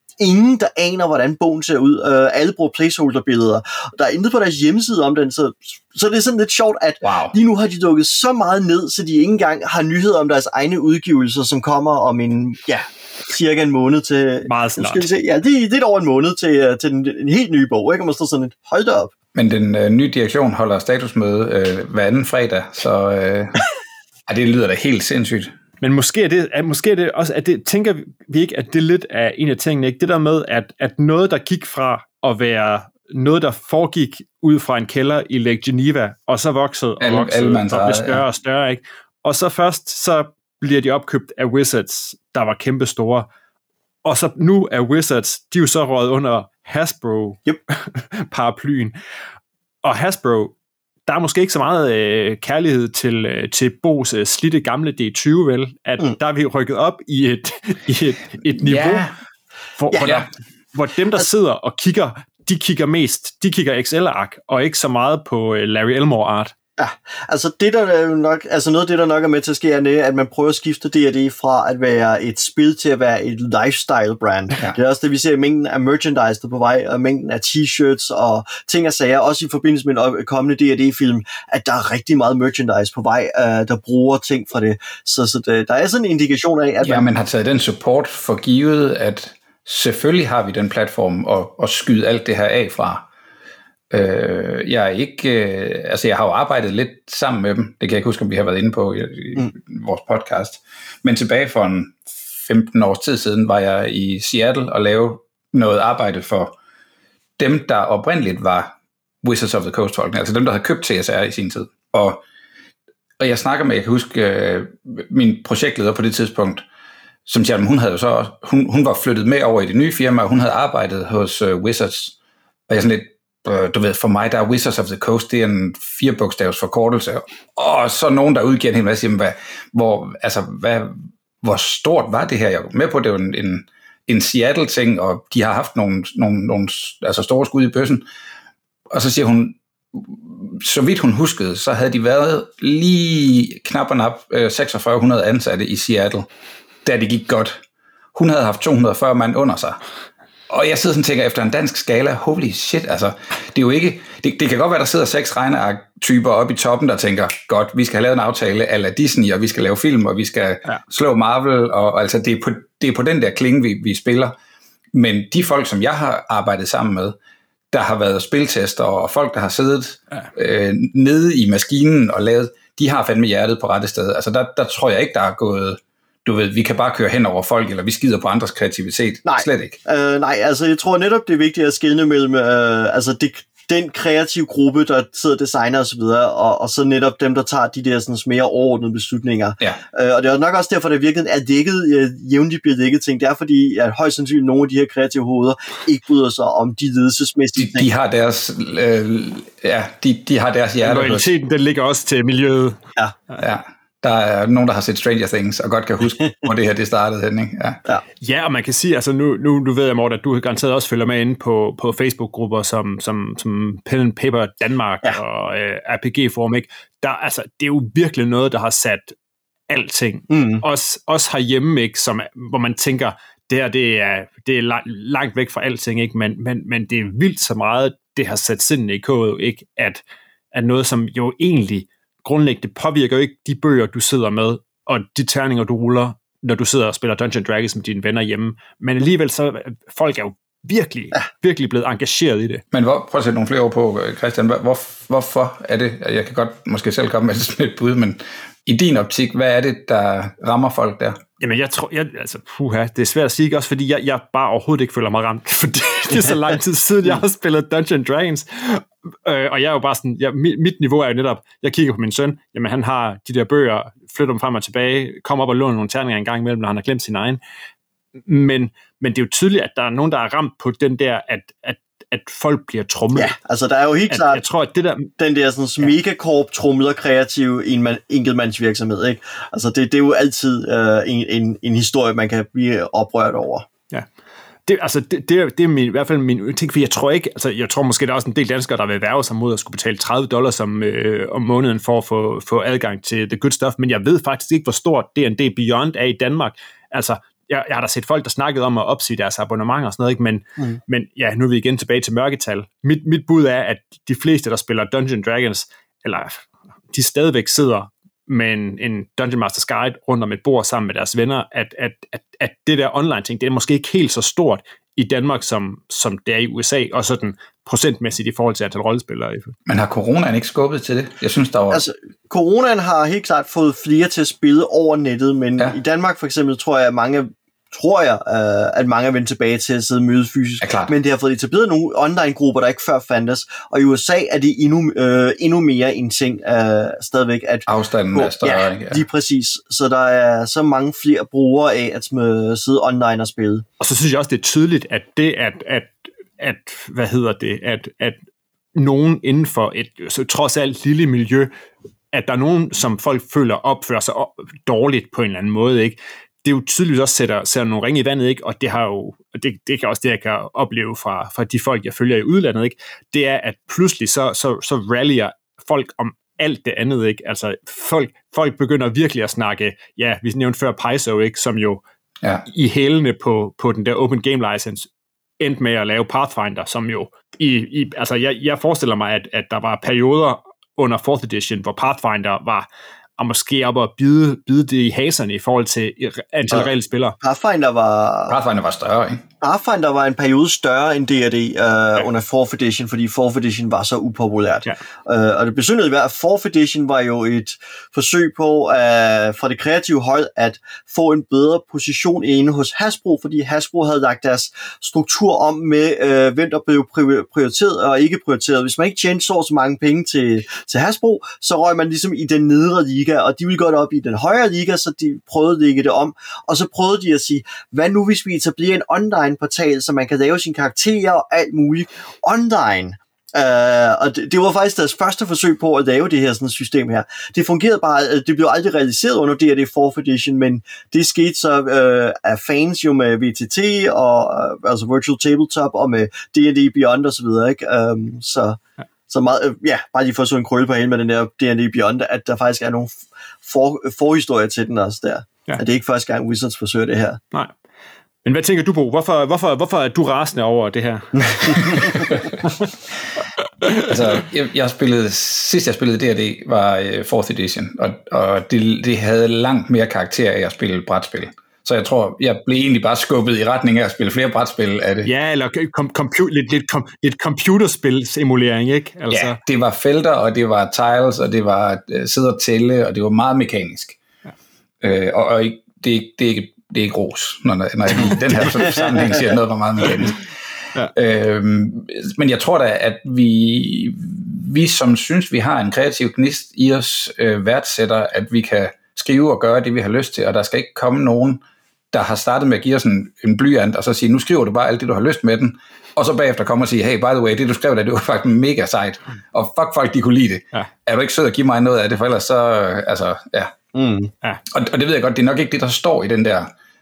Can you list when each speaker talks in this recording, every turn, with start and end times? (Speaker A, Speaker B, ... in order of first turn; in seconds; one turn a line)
Speaker A: 0.2-19.1
Speaker B: 7.0-7.3
Speaker C: 14.5-15.1
Speaker B: 19.3-23.6
Speaker B: 24.3-25.5
Speaker C: 25.8-43.3
Speaker B: 37.0-38.2
Speaker C: 44.0-48.9
Speaker C: 49.8-50.5
Speaker C: 51.1-59.1
Speaker B: 58.6-59.1
Speaker C: 59.8-66.5
Speaker B: 60.0-60.3
Speaker A: 66.8-87.1
Speaker B: 86.8-93.0
Speaker B: 93.9-106.5
Speaker B: 107.4-112.2
Speaker B: 113.2-116.6
Speaker B: 117.2-122.2
Speaker B: 122.7-138.0
Speaker B: 138.9-146.3
Speaker B: 146.8-147.6
Speaker B: 148.1-149.8
Speaker B: 150.5-164.3
Speaker B: 164.9-167.2
Speaker B: 167.7-179.8
Speaker A: 179.2-197.9
Speaker B: 197.6-201.2
Speaker C: 200.8-203.4
Speaker B: 203.4-207.8
Speaker C: 208.2-219.2
Speaker C: 219.7-230.0
Speaker A: 220.3-220.6
Speaker C: 230.5-242.6
Speaker B: 242.7-251.2
Speaker C: 251.4-267.4
Speaker C: 268.2-273.3
Speaker A: 273.1-274.4
Speaker C: 274.1-275.1
Speaker A: 275.2-283.7
Speaker C: 284.6-319.5
Speaker B: 319.7-321.8
Speaker A: 321.7-343.6
Speaker B: 330.6-330.9
Speaker B: 337.7-339.0
Speaker C: 343.8-348.2
Speaker C: 348.7-351.5
Speaker C: 352.1-371.8
Speaker C: 372.4-374.9
Speaker C: 375.4-387.2
Speaker A: 387.2-388.4
Speaker B: 388.3-389.2
Speaker A: 389.4-438.6
Speaker A: 439.1-447.2
Speaker C: 448.2-452.7
Speaker A: 451.4-451.9
Speaker C: 453.6-453.9
Speaker B: 453.8-465.1
Speaker C: 465.0-469.4
Speaker B: 469.1-474.0
Speaker B: 474.8-480.2
Speaker B: 480.9-503.5
Speaker A: 503.7-504.1
Speaker B: 504.5-506.5